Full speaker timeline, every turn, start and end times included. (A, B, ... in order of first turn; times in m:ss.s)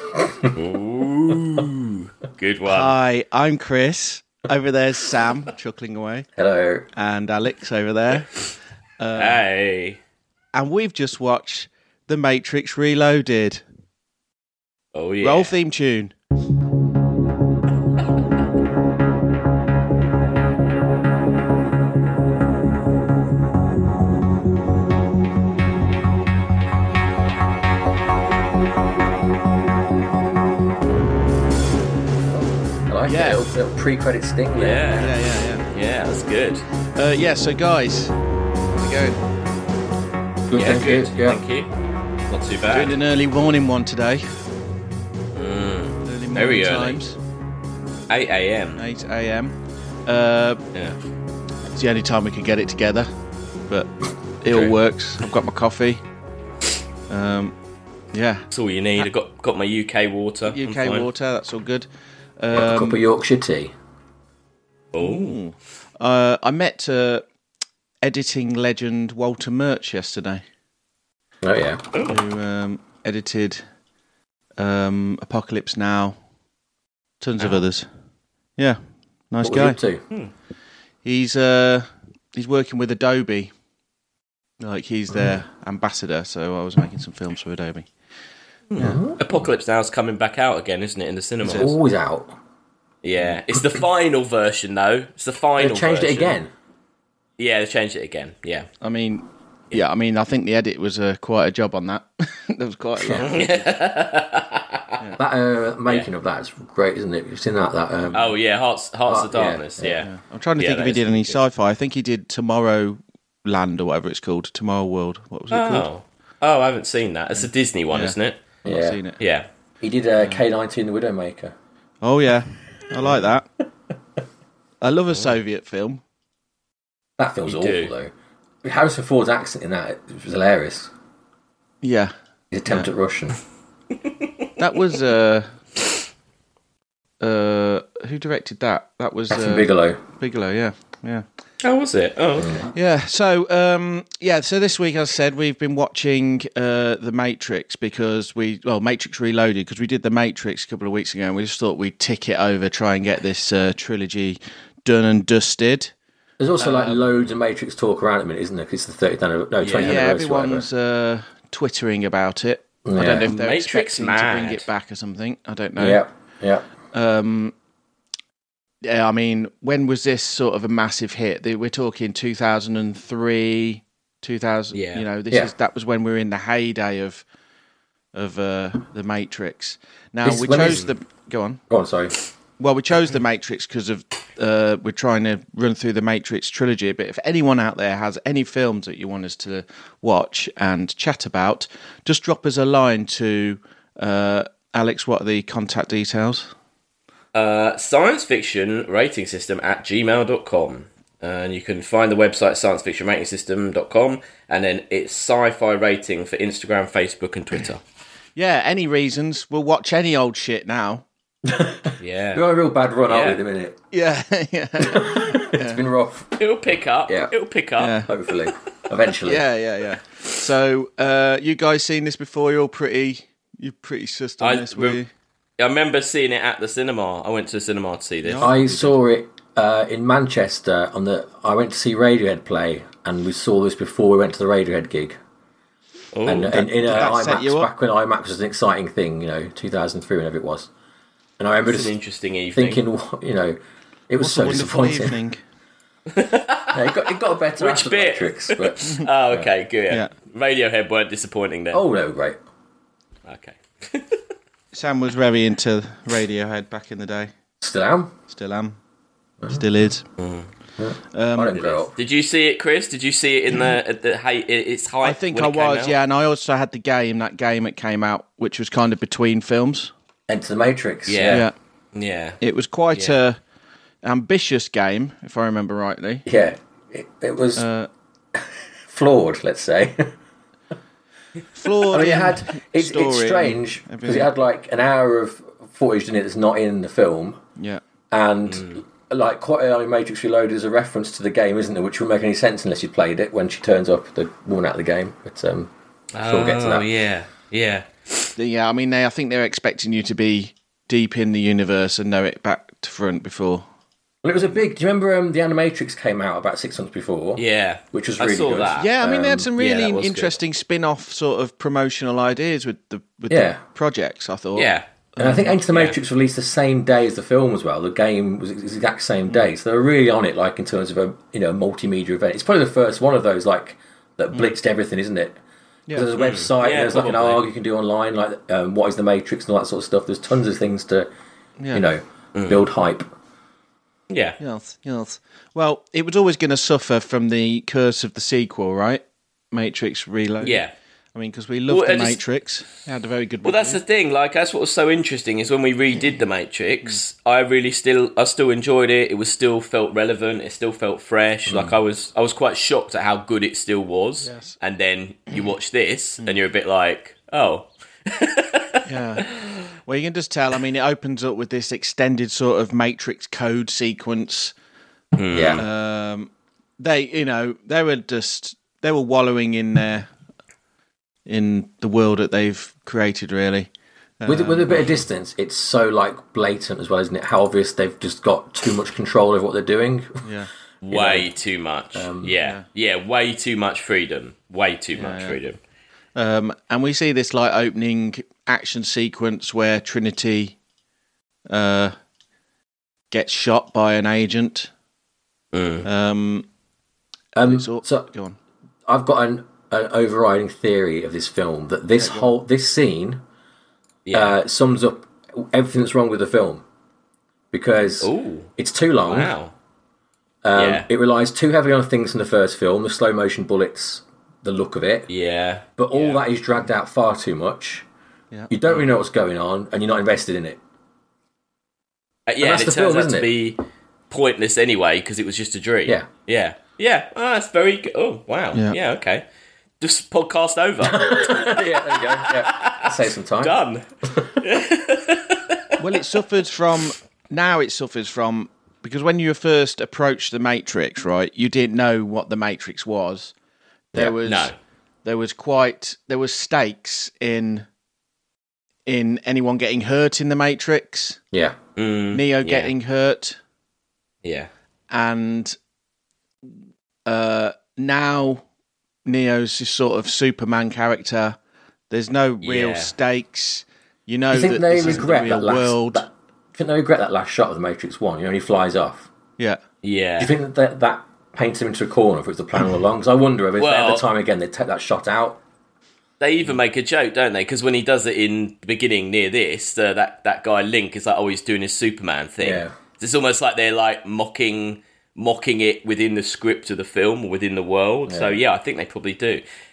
0:00.5-0:03.0 A
0:02.6-0:06.2 B
0:06.4-0:06.8 C
0:06.9-0:08.4 B
0:09.0-0:09.4 B
0:09.2-0:10.0 A
0:10.5-0:13.6 B
0:14.9-0:15.5 A
0:15.2-0:16.1 B
0:32.3-0:35.1 C
0:33.1-0:33.4 B
0:34.6-0:35.1 A
0:35.0-0:35.6 B
0:35.7-0:36.6 A
0:36.9-0:38.2 B
0:38.7-0:39.2 B
0:40.5-0:41.4 C
0:40.5-0:41.7 A
0:42.3-0:42.9 A
0:42.7-0:44.2 B
0:45.3-0:47.0 A
0:46.0-0:47.2 B
0:48.1-0:48.8 A
0:48.8-0:50.6 B
0:51.7-0:53.1 B
0:54.4-0:56.0 B
0:54.5-0:54.8 A
0:57.1-0:57.6 B
0:58.1-0:58.5 B
0:58.5-1:01.1 A
1:00.5-1:01.9 B
1:02.4-1:03.0 B
1:02.5-1:03.7 C
1:04.9-1:05.4 A
1:05.0-1:07.2 B
1:08.0-1:10.4 B
1:11.4-1:11.8 C
1:11.9-1:12.2 A
1:12.0-1:13.6 B
1:14.6-1:16.2 B
1:17.2-1:17.9 B
1:19.3-1:19.8 B
1:19.4-1:20.0 C
1:21.0-1:23.5 B
1:24.6-1:27.9 B
1:28.7-1:31.7 A
1:28.8-1:29.2 C
1:31.4-1:31.7 B
1:31.4-1:32.3 C
1:33.0-1:36.4 A
1:35.6-1:36.5 C
1:37.4-1:38.7 A
1:38.8-1:43.8 B
1:43.0-1:43.3 C
1:43.2-1:45.0 A
1:45.2-1:48.3 C
1:48.1-1:51.4 A
1:49.1-1:50.0 C
1:50.0-1:55.9 B
1:55.5-1:58.4 A
1:57.4-1:59.2 B
1:58.6-1:59.0 C
1:59.2-1:59.5 A
1:59.8-2:01.5 C
2:02.0-2:03.4 B
2:04.8-2:06.0 B
2:07.2-2:08.1 C
2:07.5-2:07.9 A
2:08.6-2:10.9 C
2:11.8-2:12.1 B
2:12.5-2:13.4 C
2:14.6-2:15.6 B
2:17.2-2:21.2 B
2:19.3-2:20.0 C
2:21.6-2:22.6 A
2:22.4-2:22.7 C
2:22.7-2:35.9 B
2:36.4-2:40.7 C
2:36.6-2:37.1 B
2:39.6-2:40.0 A
2:39.8-2:46.0 B
2:42.8-2:43.3 C
2:43.3-2:44.7 A
2:45.8-2:46.6 C
2:46.9-2:47.5 B
2:48.8-2:57.2 B
2:54.7-2:55.0 A
2:58.1-3:01.6 B
3:00.2-3:00.9 C
3:01.7-3:02.1 C
3:02.6-3:16.5 B
3:17.3-3:27.8 A
3:28.4-3:31.0 B
3:31.4-3:33.8 C
3:32.0-3:32.4 A
3:33.1-3:33.4 A
3:33.9-3:35.8 B
3:34.8-3:36.4 C
3:36.4-3:38.0 A
3:37.8-3:38.1 B
3:38.0-3:39.4 C
3:39.2-3:45.1 B
3:44.4-3:45.0 A
3:45.6-3:48.6 A
3:48.2-3:48.9 B
3:48.4-3:55.1 C
3:56.1-3:56.6 A
3:56.2-4:00.7 C
3:56.5-3:57.7 B
4:01.4-4:01.9 C
4:01.7-4:02.8 A
4:02.5-4:05.2 C
4:04.2-4:05.4 B
4:06.1-4:07.0 A
4:06.7-4:09.5 C
4:07.6-4:11.8 A
4:11.7-4:12.4 C
4:13.2-4:14.2 A
4:14.7-4:17.3 B
4:17.6-4:18.1 C
4:18.3-4:18.8 B
4:19.5-4:20.1 B
4:20.2-4:20.5 A
4:20.8-4:21.9 C
4:21.1-4:21.8 B
4:21.8-4:26.0 A
4:25.0-4:29.9 B
4:30.3-4:31.4 C
4:31.1-4:32.4 A
4:31.3-4:31.5 B
4:32.4-4:33.4 B
4:34.0-4:36.2 B
4:36.2-4:37.6 C
4:37.6-4:37.9 B
4:38.3-4:40.1 C
4:41.5-4:44.3 B
4:41.9-4:47.4 C
4:48.1-4:55.7 C
4:48.5-4:48.8 A
4:56.1-4:58.3 A
4:56.2-4:56.8 C
4:58.4-5:03.6 B
5:04.2-5:09.5 C
5:07.4-5:08.9 A
5:08.8-5:15.5 B
5:09.6-5:10.4 A
5:13.3-5:13.6 C
5:14.6-5:14.8 A
5:15.2-5:25.4 C
5:25.9-5:31.1 C
5:26.2-5:27.4 A
5:31.6-5:31.8 B
5:31.7-5:33.1 C
5:32.3-5:32.6 A
5:34.1-5:34.4 A
5:34.4-5:40.6 B
5:40.4-5:40.7 A
5:41.1-5:43.8 B
5:41.7-5:42.2 A
5:43.4-5:59.6 A
5:51.5-5:51.8 C
5:54.2-5:54.5 B
5:58.8-5:59.3 B
5:59.8-6:04.5 B
6:05.1-6:05.6 A
6:05.3-6:05.6 C
6:05.5-6:10.1 B
6:11.2-6:13.7 B
6:14.2-6:14.9 B
6:14.2-6:20.2 C
6:20.2-6:20.5 B
6:20.8-6:25.6 A
6:20.9-6:21.3 C
6:21.9-6:22.4 C
6:24.9-6:25.4 B
6:26.1-6:30.6 B
6:31.5-6:31.9 B
6:33.1-6:34.7 B
6:35.5-6:35.8 A
6:35.8-6:36.4 B
6:37.3-6:38.1 C
6:37.4-6:38.4 B
6:38.9-6:43.2 C
6:42.0-6:42.3 B
6:44.1-6:44.4 A
6:44.1-6:46.6 C
6:47.5-6:49.4 C
6:48.0-6:48.5 A
6:49.1-6:49.5 A
6:50.4-6:55.1 C
6:50.5-6:50.9 A
6:55.1-6:56.2 A
6:55.8-6:57.8 C
6:58.5-7:00.6 C
7:02.3-7:09.2 A
7:02.4-7:03.3 C
7:09.8-7:15.7 A
7:10.8-7:13.6 C
7:15.8-7:23.3 B
7:23.9-7:24.5 B
7:24.2-7:24.5 A
7:25.0-7:27.7 B
7:28.9-7:31.2 B
7:31.3-7:31.6 C
7:31.8-7:32.7 A
7:32.1-7:33.4 B
7:34.2-7:34.5 A
7:34.9-7:35.6 B
7:37.0-7:38.4 B
7:39.0-7:41.4 B
7:41.9-7:46.0 B
7:42.4-7:42.9 A
7:44.3-7:49.1 C
7:49.8-7:50.3 A
7:50.2-7:55.4 C
7:53.6-7:54.0 A
7:56.2-8:09.4 A
8:02.4-8:02.7 C
8:08.1-8:08.4 C